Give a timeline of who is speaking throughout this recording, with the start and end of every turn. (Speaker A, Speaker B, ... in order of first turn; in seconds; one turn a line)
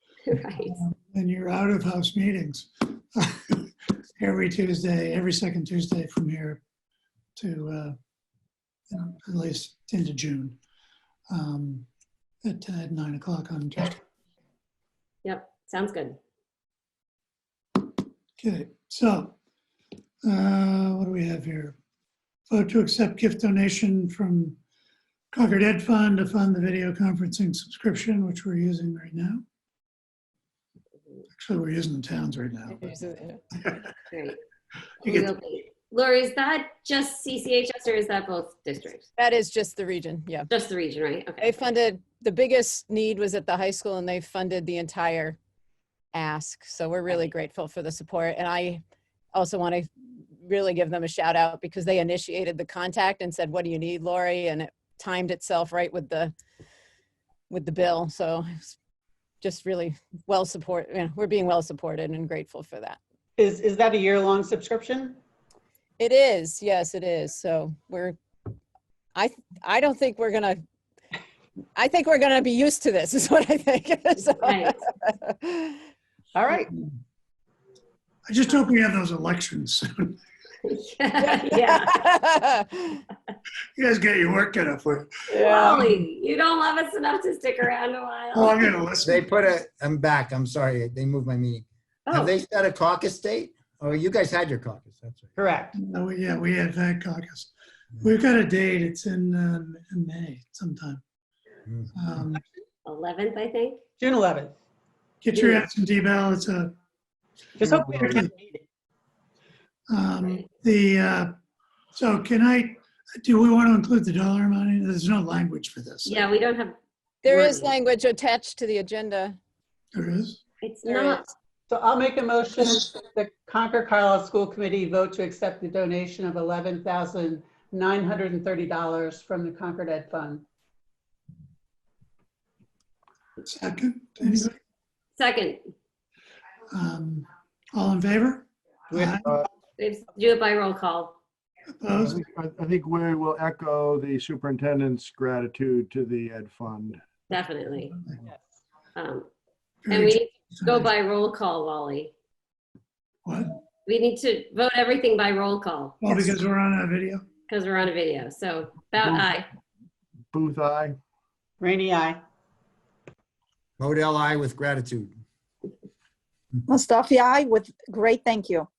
Speaker A: 0.3-0.8
Speaker B: 0.6-6.6
Speaker B: 7.4-8.0
Speaker B: 8.9-10.6
Speaker B: 11.3-11.9
Speaker B: 12.4-14.0
Speaker A: 15.2-16.2
Speaker B: 18.4-19.4
Speaker B: 20.2-21.8
Speaker B: 22.5-24.6
Speaker B: 25.3-29.4
Speaker B: 31.4-33.0
Speaker C: 32.7-33.4
Speaker A: 34.1-34.4
Speaker A: 35.0-39.1
Speaker C: 39.2-40.5
Speaker A: 40.5-41.5
Speaker C: 41.4-45.4
Speaker C: 46.1-48.8
Speaker C: 49.3-49.9
Speaker C: 50.4-56.3
Speaker C: 57.5-58.7
Speaker C: 59.4-63.0
Speaker D: 63.4-65.2
Speaker C: 66.0-68.2
Speaker C: 69.2-70.6
Speaker C: 71.8-75.8
Speaker A: 74.4-74.8
Speaker D: 76.3-76.7
Speaker B: 78.3-80.2
Speaker A: 80.6-82.1
Speaker C: 81.3-83.0
Speaker B: 83.8-85.1
Speaker C: 85.3-85.9
Speaker A: 85.4-88.7
Speaker B: 88.3-89.3
Speaker E: 89.0-95.3
Speaker A: 92.1-92.3
Speaker D: 95.4-95.8
Speaker B: 95.7-101.0
Speaker B: 102.0-102.4
Speaker A: 102.9-103.8
Speaker D: 104.0-104.5
Speaker B: 105.2-106.7
Speaker D: 107.6-108.6
Speaker F: 107.6-108.3
Speaker B: 109.9-111.3
Speaker B: 111.9-116.2
Speaker A: 116.0-117.7
Speaker C: 117.2-119.4
Speaker B: 120.0-120.4
Speaker A: 120.6-121.3
Speaker C: 120.8-121.3
Speaker D: 121.7-130.4
Speaker B: 133.4-134.6
Speaker A: 135.2-135.6
Speaker B: 136.7-139.3
Speaker F: 139.0-139.5
Speaker A: 139.8-141.2
Speaker B: 141.8-142.2
Speaker F: 142.0-147.1
Speaker A: 147.3-148.0
Speaker A: 149.0-149.3
Speaker B: 149.9-150.9
Speaker A: 149.9-152.1
Speaker B: 153.2-153.5
Speaker A: 153.9-156.3
Speaker B: 156.0-157.2
Speaker A: 157.5-159.5
Speaker F: 159.0-159.3
Speaker F: 160.3-161.0
Speaker D: 161.6-162.2
Speaker E: 163.8-165.1
Speaker G: 166.7-168.7